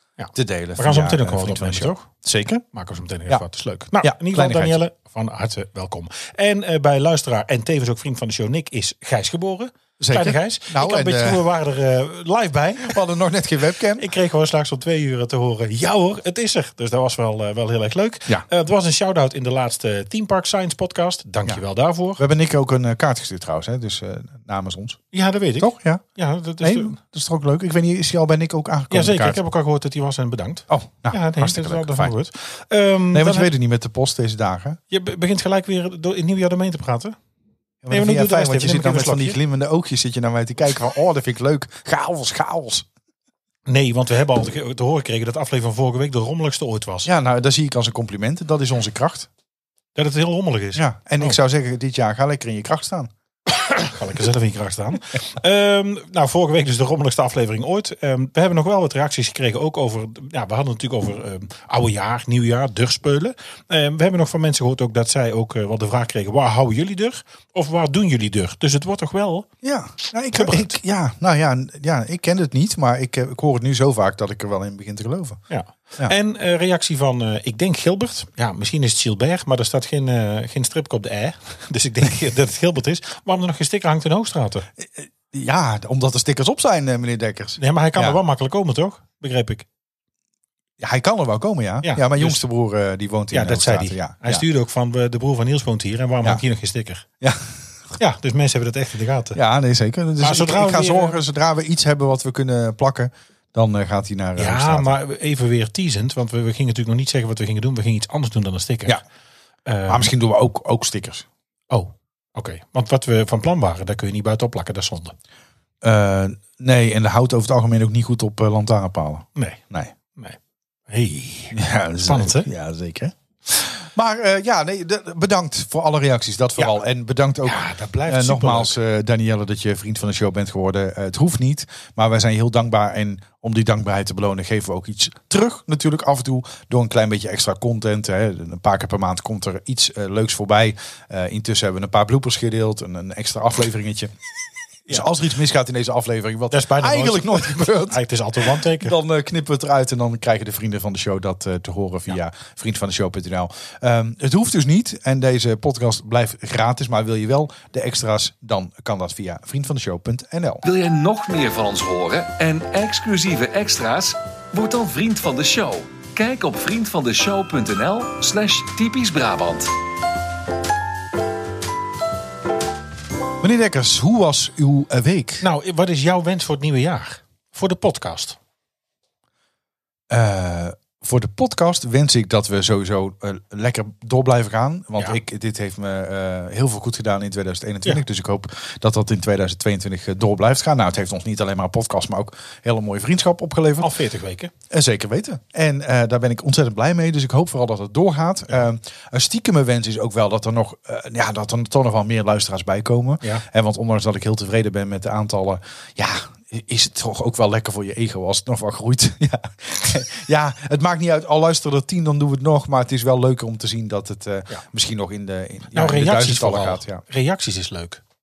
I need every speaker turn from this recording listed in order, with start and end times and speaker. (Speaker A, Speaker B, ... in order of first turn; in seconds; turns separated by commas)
Speaker A: 0.2-2.1, Speaker B: 0.3-2.6, Speaker A: 2.7-13.0, Speaker B: 4.0-4.8, Speaker B: 10.0-11.5, Speaker B: 12.8-14.1, Speaker A: 14.0-22.2, Speaker B: 22.2-25.0, Speaker A: 25.1-27.0, Speaker B: 25.6-26.0, Speaker B: 26.6-29.4, Speaker A: 28.9-33.5, Speaker B: 30.7-32.1, Speaker B: 33.1-34.8, Speaker A: 34.9-37.2, Speaker B: 37.8-42.9, Speaker A: 37.9-39.4, Speaker A: 43.7-47.1, Speaker B: 47.0-49.3, Speaker A: 50.0-51.4, Speaker B: 50.8-53.1, Speaker A: 53.8-69.5, Speaker B: 69.6-75.4, Speaker A: 70.3-70.8, Speaker A: 75.5-84.7, Speaker B: 84.8-88.2, Speaker A: 87.6-89.7, Speaker B: 90.8-94.5, Speaker A: 91.8-92.4, Speaker A: 93.3-97.0, Speaker B: 97.2-97.7, Speaker A: 98.0-99.4, Speaker B: 99.3-105.0, Speaker A: 100.2-101.2, Speaker A: 104.4-109.0, Speaker A: 109.7-110.1, Speaker B: 109.9-111.3, Speaker A: 111.7-115.2, Speaker B: 115.8-119.9, Speaker A: 119.4-119.6, Speaker A: 120.1-122.5, Speaker B: 121.5-144.1, Speaker A: 127.4-128.8, Speaker B: 144.9-160.6, Speaker A: 146.5-149.0, Speaker C: 160.7-169.7, Speaker B: 173.4-175.4, Speaker A: 175.4-178.4, Speaker B: 180.1-193.9, Speaker A: 193.8-194.5, Speaker B: 194.7-217.0, Speaker A: 215.7-218.0